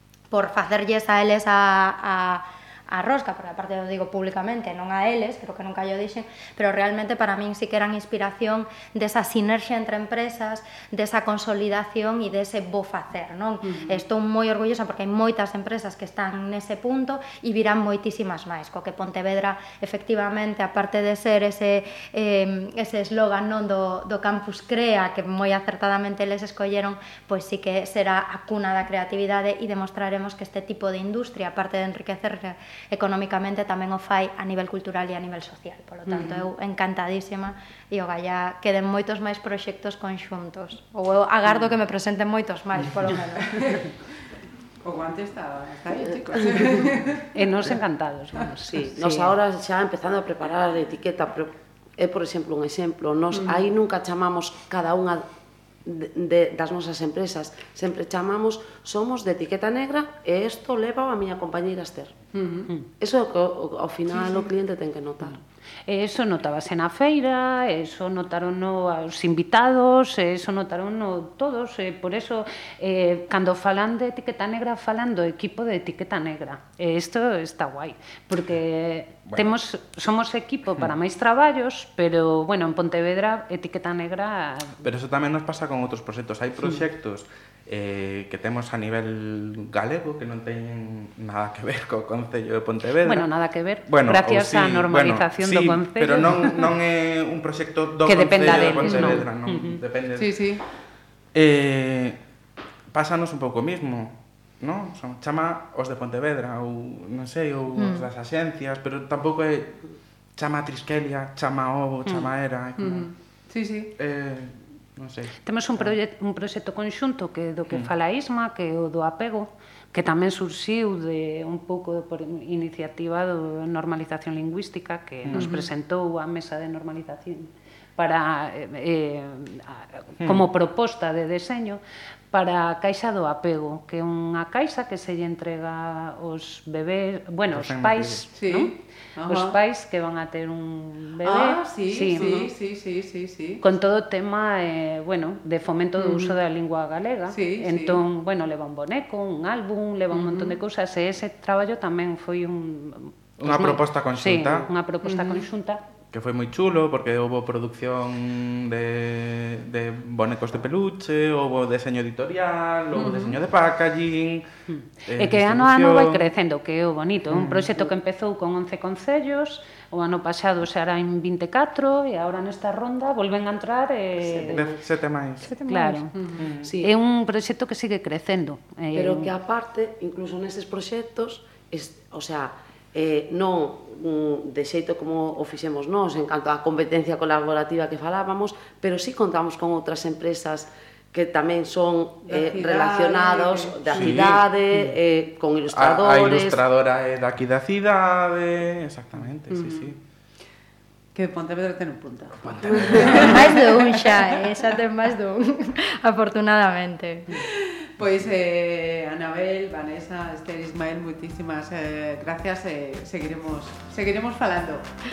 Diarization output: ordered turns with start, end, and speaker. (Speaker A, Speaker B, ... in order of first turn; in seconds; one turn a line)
Speaker A: 0.3-43.8
Speaker B: 13.6-14.0
Speaker B: 36.1-36.5
Speaker B: 43.5-43.9
Speaker B: 44.8-47.3
Speaker C: 47.3-49.3
Speaker D: 48.7-55.2
Speaker B: 53.3-53.7
Speaker D: 55.9-62.2
Speaker B: 62.3-62.7
Speaker D: 63.0-65.4
Speaker B: 64.1-64.5
Speaker C: 65.9-84.8
Speaker E: 79.3-79.5
Speaker E: 84.8-93.3
Speaker C: 93.0-96.7
Speaker E: 93.9-100.4
Speaker C: 98.0-99.8
Speaker B: 98.8-99.3
Speaker B: 100.2-100.6
Speaker E: 101.3-102.2
Speaker E: 102.9-109.8
Speaker A: 107.8-108.1
Speaker E: 110.4-113.1
Speaker B: 112.8-114.0
Speaker E: 114.0-116.0
Speaker C: 115.5-138.7
Speaker B: 125.3-125.7
Speaker E: 130.2-130.4
Speaker E: 137.5-138.2
Speaker B: 138.3-139.6
Speaker C: 139.3-142.5
Speaker B: 141.2-143.6
Speaker C: 143.6-155.8
Speaker B: 146.0-146.4
Speaker B: 147.3-148.0
Speaker B: 150.1-150.6
Speaker E: 153.4-154.7
Speaker B: 155.0-155.5
Speaker E: 156.1-164.4
Speaker B: 162.9-163.4
Speaker C: 164.7-174.7
Speaker E: 165.1-166.3
Speaker E: 167.3-167.7
Speaker D: 174.2-174.8
Speaker E: 174.5-175.5
Speaker A: 175.5-176.0
Speaker C: 175.7-176.1
Speaker B: 176.1-176.5
Speaker E: 176.4-176.7
Speaker C: 176.8-179.3
Speaker D: 178.9-196.6
Speaker B: 192.2-194.3
Speaker E: 193.9-194.4
Speaker E: 195.7-200.0
Speaker B: 199.5-200.0
Speaker B: 201.1-204.7
Speaker E: 202.4-203.5
Speaker A: 203.2-207.3
Speaker B: 207.4-214.9